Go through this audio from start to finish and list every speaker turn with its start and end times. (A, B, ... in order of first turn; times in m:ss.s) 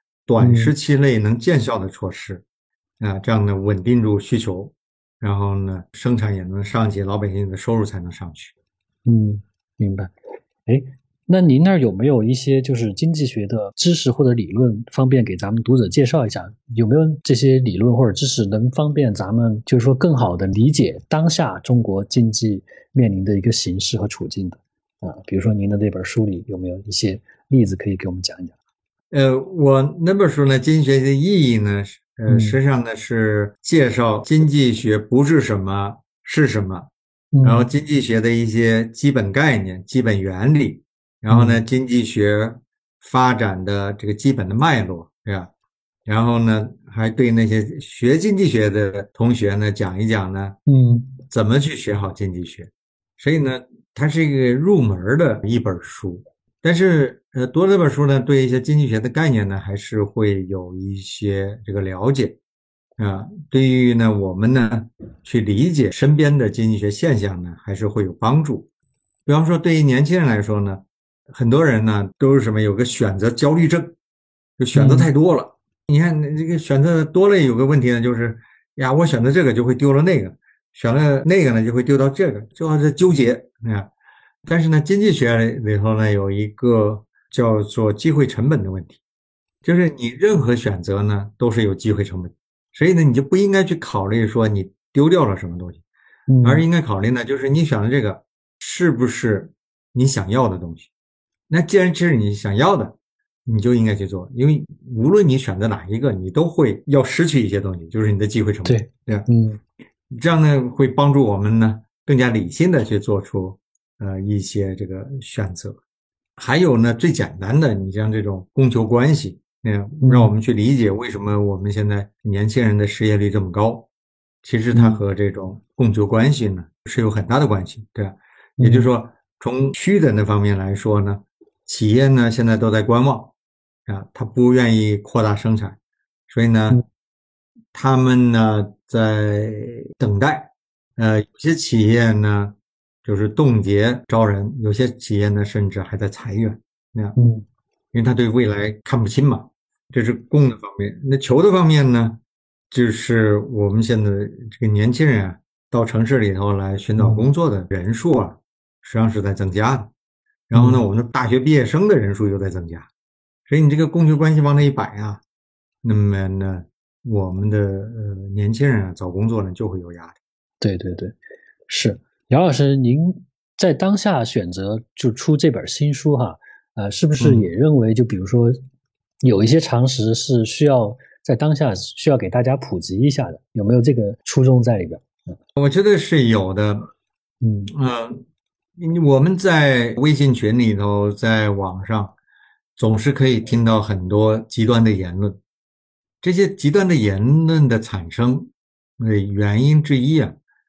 0:00.3-0:02.4 A
0:00.4-0:00.7 B
0:03.0-0:08.5 A
0:09.0-0:10.1 B
0:10.6-0:28.5 B
0:29.1-0:36.9 A
0:32.3-0:32.6 B
0:37.3-0:37.7 B
0:37.4-0:45.5 A
0:41.3-0:41.6 B
0:46.0-0:50.6 A
0:50.6-0:51.1 B
0:51.3-1:02.4 A
1:03.0-1:08.7 A
1:09.2-1:13.9 A
1:14.6-1:23.9 A
1:14.7-1:15.1 B
1:24.4-1:29.0 A
1:29.6-1:35.8 A
1:36.3-1:36.6 B
1:36.4-1:40.9 A
1:41.5-1:42.9 A
1:43.4-1:49.3 A
1:48.6-1:49.6 B
1:50.1-1:55.8 A
1:56.4-2:03.9 A
2:00.0-2:00.3 B
2:04.4-2:13.3 A
2:04.7-2:05.0 B
2:08.6-2:08.9 B
2:13.9-2:15.8 A
2:16.3-2:16.8 A
2:17.7-2:27.2 A
2:27.1-2:27.4 B
2:27.9-2:32.2 A
2:32.7-2:39.9 A
2:37.0-2:37.3 B
2:40.5-2:42.9 A
2:40.5-2:40.8 B
2:43.5-2:45.2 A
2:45.8-2:50.2 A
2:50.6-2:51.2 B
2:51.7-2:58.6 B
2:57.2-2:57.5 A
2:59.2-3:05.2 B
3:05.6-3:06.9 A
3:07.4-3:07.7 B
3:07.7-3:08.2 A
3:08.8-3:12.1 A
3:12.8-3:15.4 A
3:16.2-3:20.4 A